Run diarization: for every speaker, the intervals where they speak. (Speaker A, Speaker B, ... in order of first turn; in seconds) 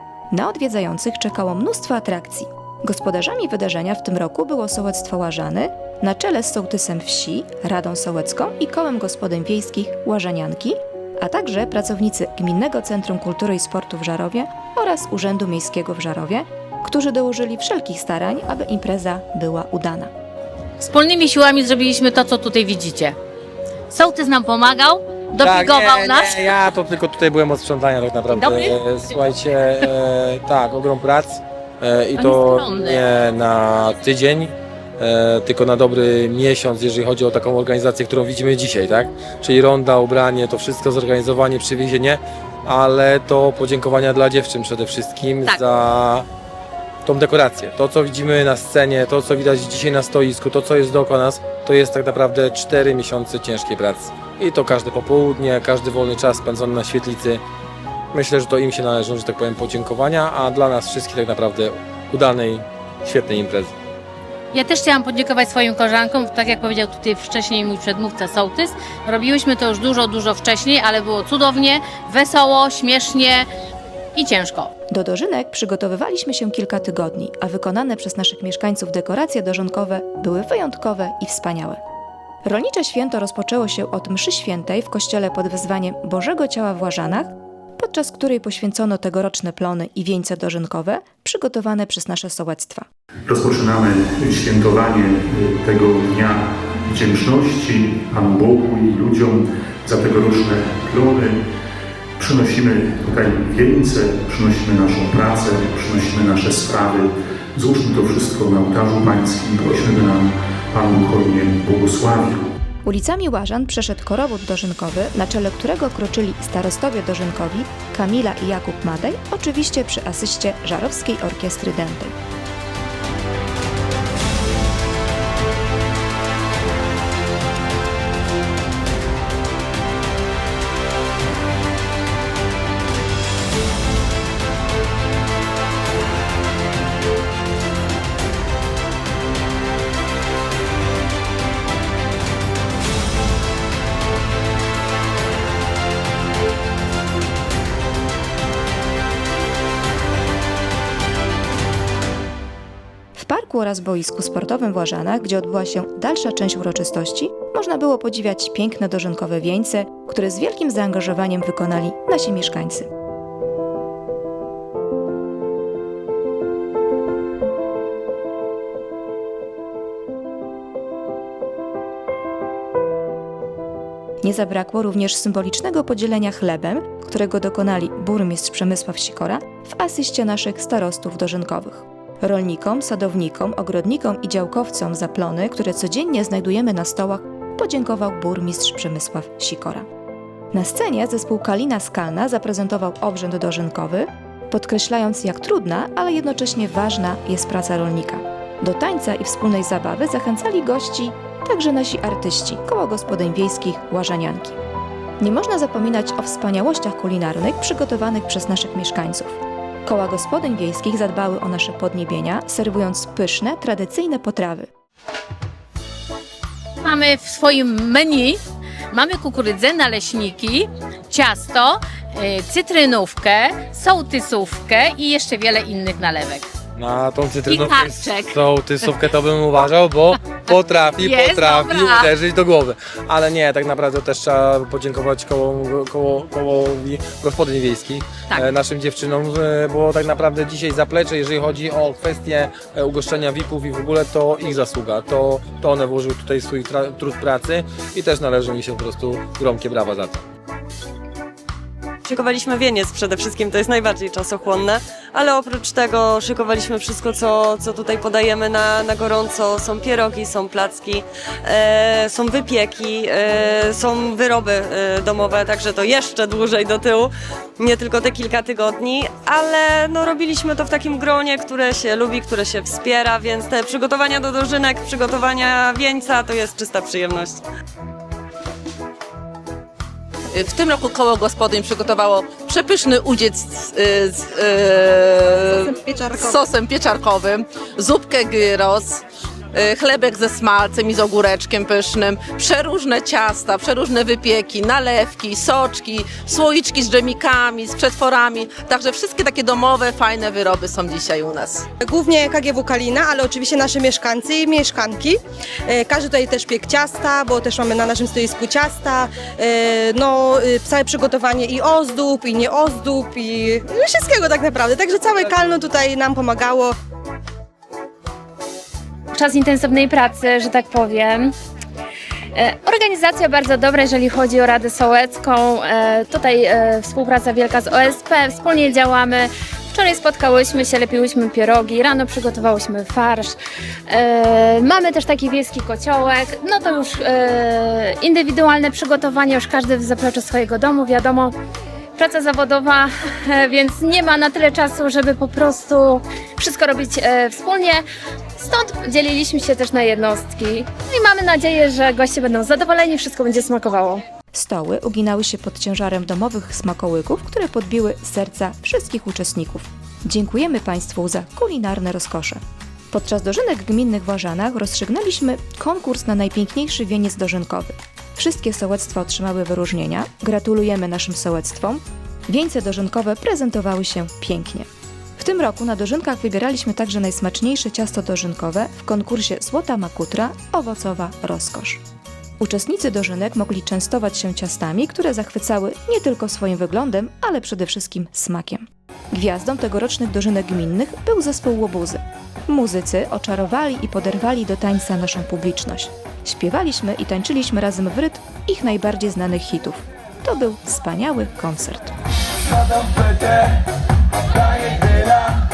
Speaker A: 0.3-20.1, 74.9-81.8, 82.4-92.8, 112.8-122.1, 153.1-162.9, 174.2-189.8, 190.5-204.6, 205.2-214.7, 354.3-362.4, 362.9-374.7, 375.2-381.8, 382.4-401.9
Speaker B: 20.8-23.1, 23.9-26.3, 28.4-28.7, 32.2-33.0, 64.5-73.5, 74.1-74.7, 216.8-226.4, 227.6-228.3, 231.1-232.1
Speaker C: 25.4-46.2, 47.0-57.4, 58.1-63.7, 226.8-250.2
Speaker D: 93.3-101.4, 102.2-112.5
Speaker E: 252.0-277.4
Speaker F: 280.3-301.6
Speaker G: 301.8-316.8
Speaker H: 319.1-321.3, 322.3-333.4, 333.9-341.3, 342.0-347.8, 348.4-354.0